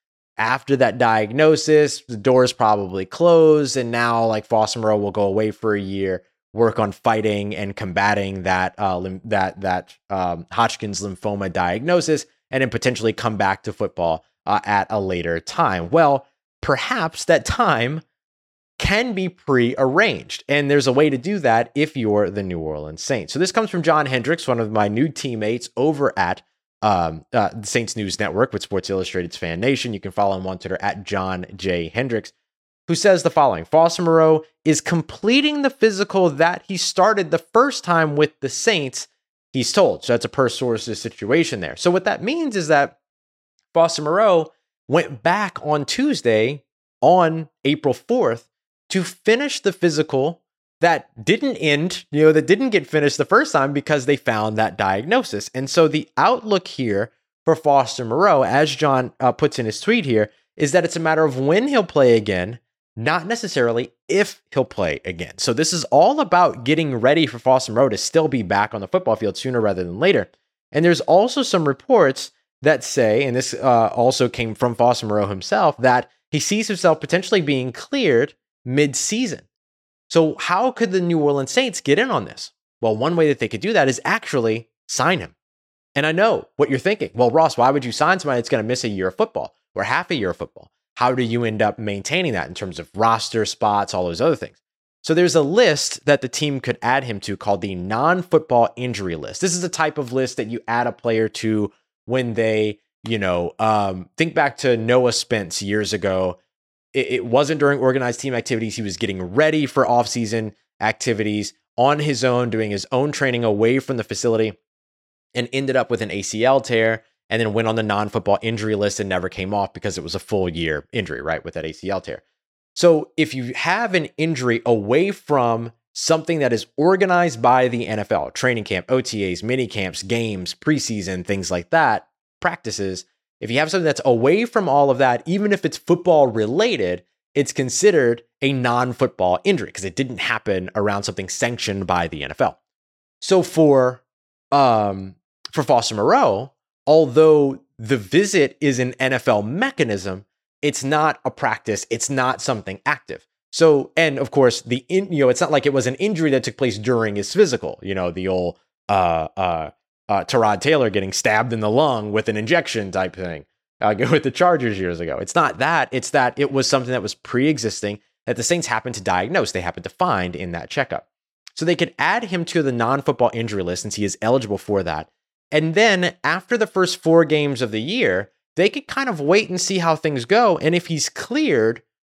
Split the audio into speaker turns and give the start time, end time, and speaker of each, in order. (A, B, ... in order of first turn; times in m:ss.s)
0:00.4-0:18.0 A
0:18.8-0:32.3 A
0:32.9-0:43.0 A
0:43.7-1:19.4 A
1:20.1-1:25.3 A
1:26.0-1:46.4 A
1:46.9-1:54.6 A
1:55.3-2:02.2 A
2:02.8-2:22.6 A
2:23.2-2:51.0 A
2:51.6-3:01.8 A